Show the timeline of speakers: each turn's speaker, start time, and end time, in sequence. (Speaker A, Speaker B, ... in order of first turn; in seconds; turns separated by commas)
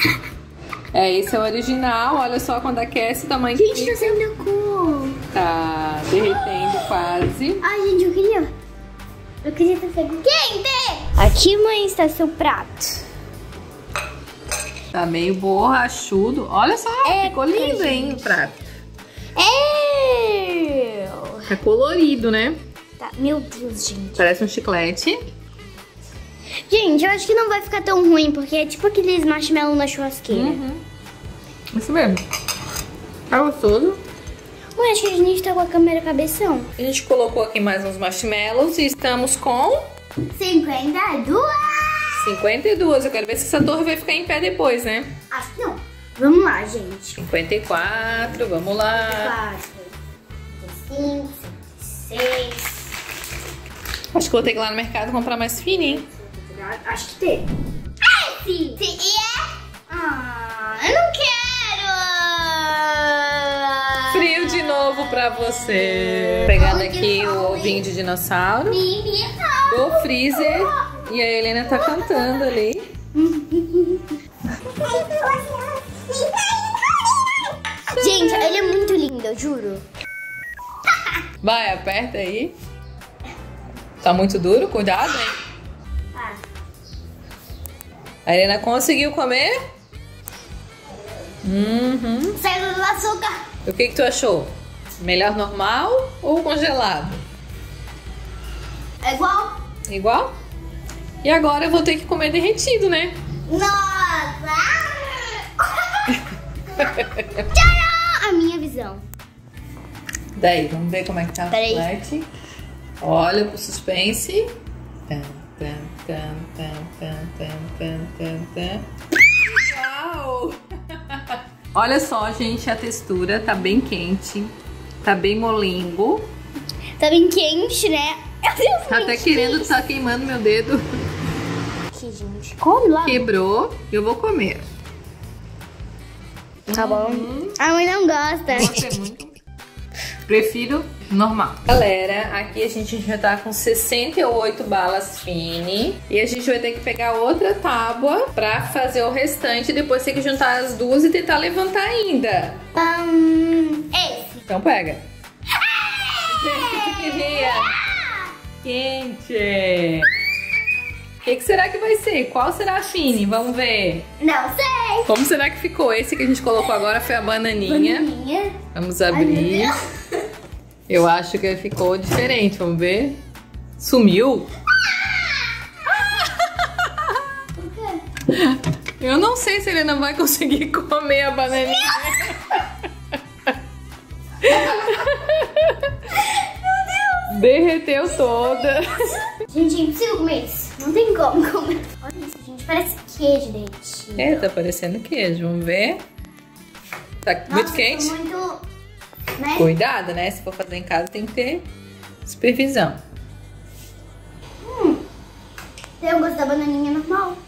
Speaker A: 0.9-4.2, Speaker B: 3.5-5.2, Speaker A: 5.3-7.6, Speaker B: 6.2-6.5, Speaker B: 7.6-8.5, Speaker B: 9.4-13.0, Speaker A: 14.9-18.6, Speaker B: 17.0-18.3, Speaker B: 19.4-21.5, Speaker A: 21.5-22.6, Speaker B: 23.0-24.2, Speaker A: 24.2-25.2, Speaker B: 26.7-30.6, Speaker A: 30.3-30.8, Speaker A: 31.7-32.2, Speaker A: 33.3-34.0, Speaker B: 34.8-36.7, Speaker A: 36.8-39.9, Speaker B: 40.3-42.3, Speaker A: 42.1-45.1, Speaker B: 45.3-47.2, Speaker A: 47.2-49.4, Speaker B: 48.9-49.9, Speaker B: 50.5-52.9, Speaker A: 54.1-56.0, Speaker B: 55.8-57.4, Speaker B: 58.0-64.6, Speaker A: 64.1-68.8, Speaker B: 66.4-67.8, Speaker B: 68.7-71.0, Speaker A: 69.7-72.9, Speaker B: 71.8-72.4, Speaker B: 73.1-74.2, Speaker B: 74.7-77.1, Speaker B: 77.9-79.8, Speaker A: 81.4-82.5, Speaker A: 84.0-85.4, Speaker B: 86.1-86.4, Speaker A: 88.2-89.5, Speaker A: 91.4-92.4, Speaker B: 92.4-93.4, Speaker A: 93.6-97.2, Speaker B: 99.0-99.6, Speaker A: 99.9-100.3, Speaker A: 101.2-103.2, Speaker B: 103.5-106.1, Speaker A: 106.8-107.5, Speaker B: 107.5-109.0, Speaker A: 110.4-112.3, Speaker B: 111.5-111.9, Speaker A: 113.0-114.5, Speaker A: 115.1-118.9, Speaker A: 119.4-126.3, Speaker B: 127.0-129.8, Speaker A: 128.9-130.9, Speaker B: 131.9-133.2, Speaker A: 133.0-134.6, Speaker A: 136.7-137.6, Speaker B: 136.7-138.9, Speaker A: 138.5-139.4, Speaker A: 140.3-152.6, Speaker B: 152.8-154.4, Speaker A: 154.5-155.0, Speaker B: 155.5-158.3, Speaker A: 156.3-157.8, Speaker A: 158.6-160.1, Speaker A: 161.2-164.1, Speaker B: 164.2-165.1, Speaker A: 165.1-168.1, Speaker B: 167.6-168.6, Speaker A: 168.7-169.8, Speaker B: 169.1-169.8, Speaker A: 170.9-173.2, Speaker A: 173.8-174.5, Speaker B: 174.8-175.5, Speaker A: 176.2-177.2, Speaker B: 177.6-178.0, Speaker A: 178.3-182.7, Speaker A: 184.4-186.0, Speaker B: 184.4-185.0, Speaker B: 186.1-187.3, Speaker A: 187.3-189.2, Speaker B: 188.0-194.4, Speaker A: 194.2-196.0, Speaker A: 197.2-198.1, Speaker B: 197.5-198.6, Speaker B: 199.4-199.7, Speaker A: 199.6-201.7, Speaker A: 202.2-203.0, Speaker B: 204.6-205.0, Speaker B: 206.0-207.4